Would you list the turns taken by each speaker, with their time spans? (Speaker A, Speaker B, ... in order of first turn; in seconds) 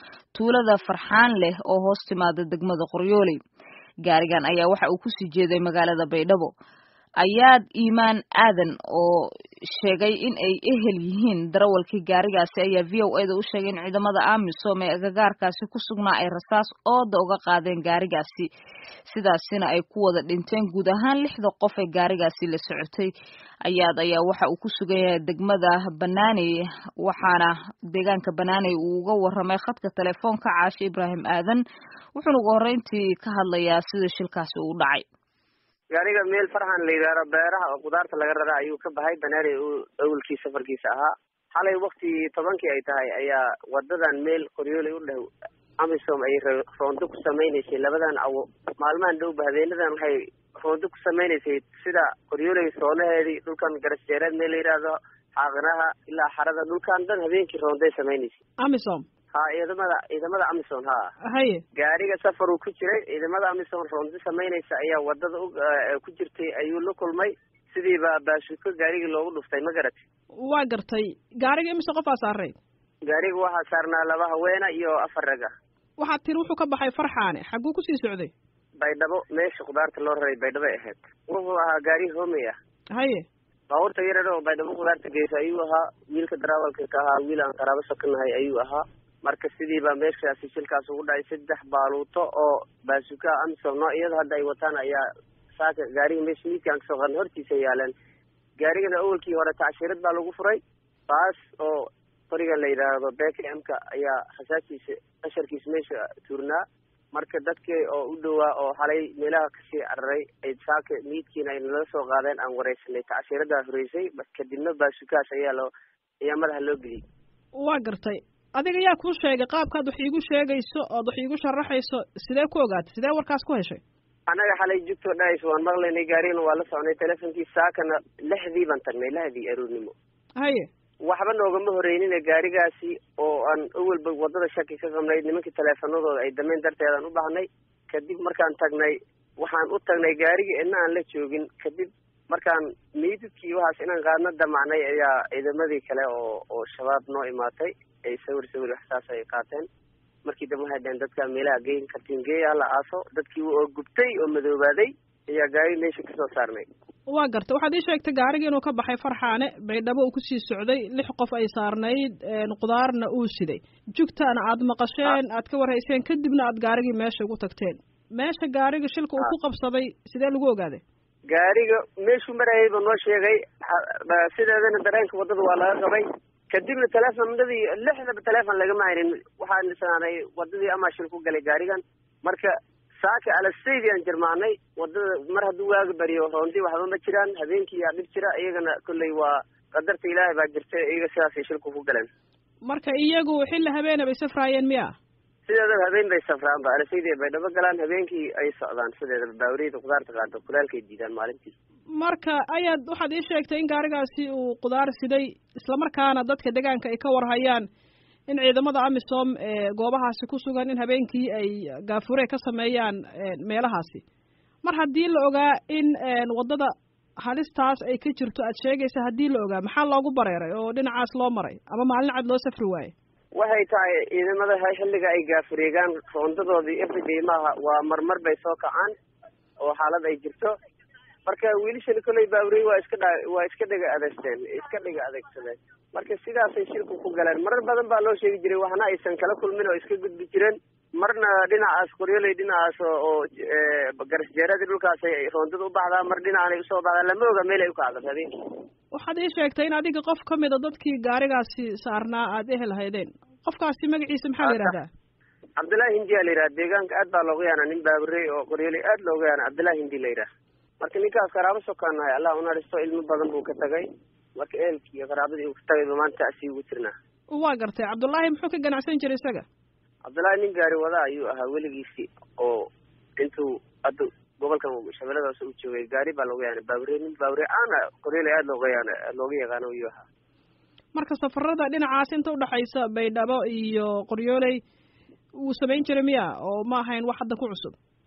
Speaker A: 0.3-3.4, 4.0-6.5, 7.2-9.2, 9.8-18.5, 19.1-23.1, 23.6-31.6, 32.1-35.0
Speaker B: 35.9-45.3, 45.8-58.4, 59.3-61.1, 61.7-70.0, 73.0-75.5, 78.8-82.5, 83.7-95.0, 95.5-97.9, 98.6-106.6, 107.1-115.7, 116.2-117.0, 124.3-129.9, 131.1-149.7, 150.2-156.6, 171.3-192.1, 195.4-201.5, 223.3-228.9, 229.6-230.5, 231.2-248.3, 254.4-254.7, 255.6-260.3, 260.8-266.9, 270.0-280.0
Speaker C: 58.6-59.0, 61.3-61.6, 70.4-72.6, 76.0-78.3, 83.0-83.2, 117.6-123.8, 130.4-130.7, 157.1-170.8, 192.7-194.9, 202.0-207.7, 208.3-214.0, 214.6-216.7, 217.2-222.9, 248.9-254.9, 267.3-269.4, 280.9-284.6, 285.4-287.8